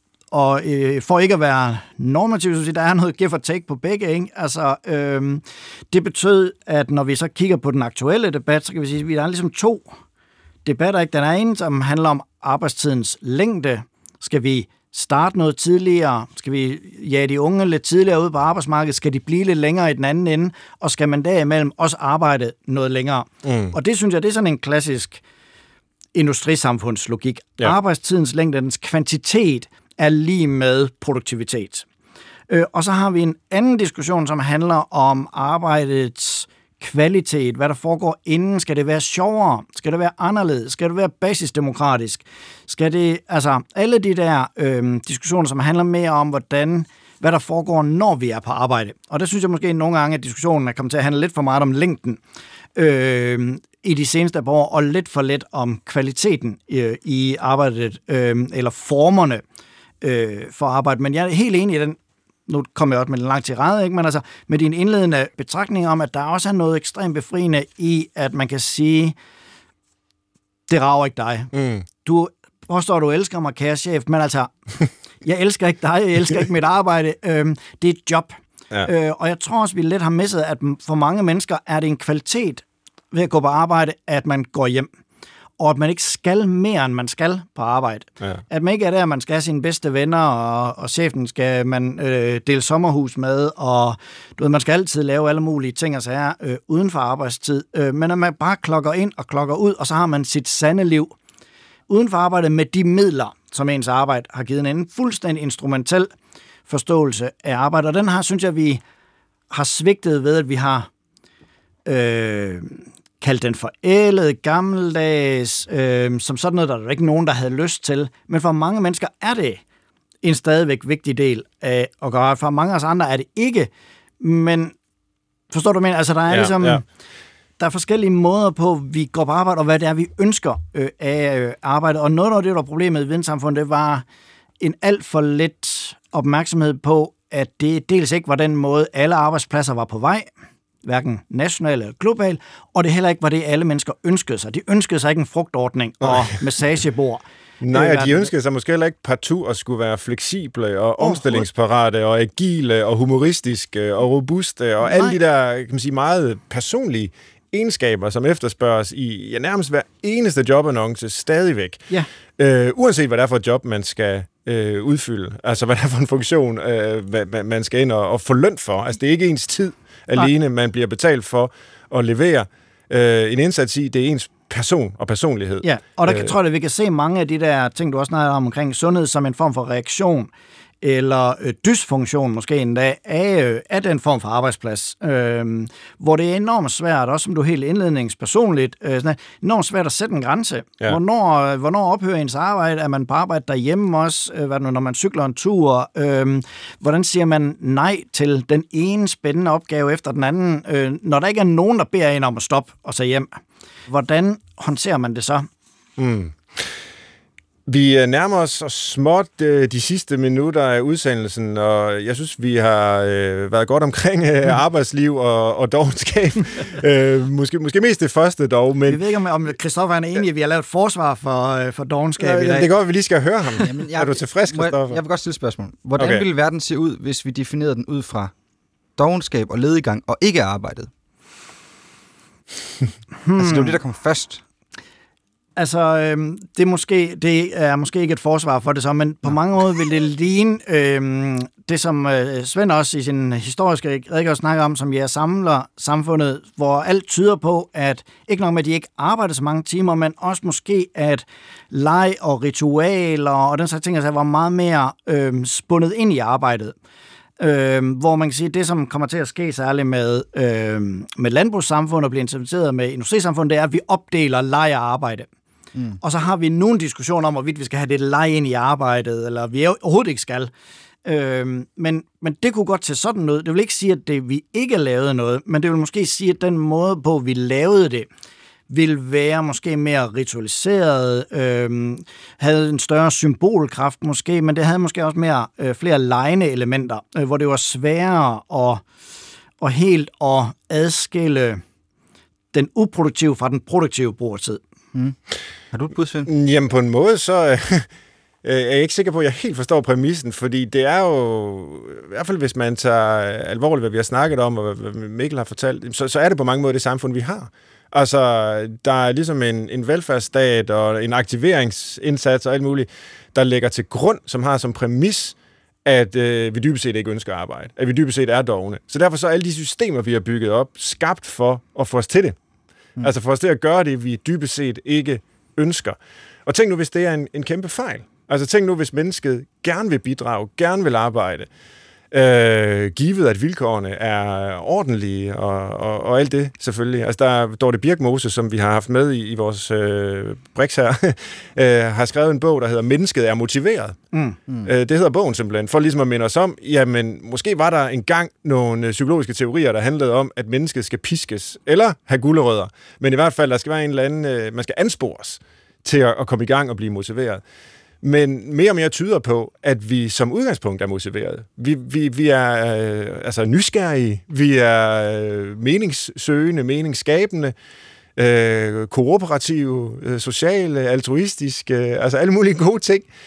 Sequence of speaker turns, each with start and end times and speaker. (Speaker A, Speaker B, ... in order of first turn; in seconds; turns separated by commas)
Speaker A: 0.3-9.9, Speaker A: 10.6-25.2, Speaker B: 23.4-23.7, Speaker A: 26.1-31.9, Speaker A: 32.5-52.2, Speaker A: 52.8-59.4, Speaker A: 60.0-69.2, Speaker A: 70.7-84.9, Speaker B: 71.5-71.8, Speaker A: 85.6-101.1, Speaker A: 101.9-106.1, Speaker A: 106.7-108.8, Speaker A: 109.5-110.9, Speaker A: 111.8-119.6, Speaker A: 120.2-124.7, Speaker A: 125.5-126.8, Speaker B: 126.3-126.8, Speaker A: 127.6-134.0, Speaker A: 134.6-140.3, Speaker A: 140.8-148.3, Speaker B: 147.6-161.8, Speaker A: 151.0-151.4, Speaker A: 154.8-155.2, Speaker B: 162.4-176.3, Speaker A: 175.6-180.3, Speaker A: 180.8-205.5, Speaker B: 206.0-206.7, Speaker B: 207.7-219.0, Speaker A: 218.9-222.7, Speaker B: 222.2-225.0, Speaker C: 223.6-228.3, Speaker B: 226.0-226.2, Speaker C: 228.9-230.9, Speaker A: 233.2-233.8, Speaker C: 233.3-234.4, Speaker A: 235.6-256.7, Speaker A: 257.4-265.3, Speaker A: 266.0-270.5, Speaker A: 271.0-278.1, Speaker A: 278.7-288.8, Speaker A: 289.6-291.6, Speaker A: 292.5-294.6, Speaker C: 295.7-296.3, Speaker B: 296.2-297.9, Speaker B: 298.4-322.4, Speaker B: 323.0-331.5, Speaker B: 332.1-344.0, Speaker B: 344.6-357.4, Speaker B: 358.0-367.5, Speaker B: 368.1-373.1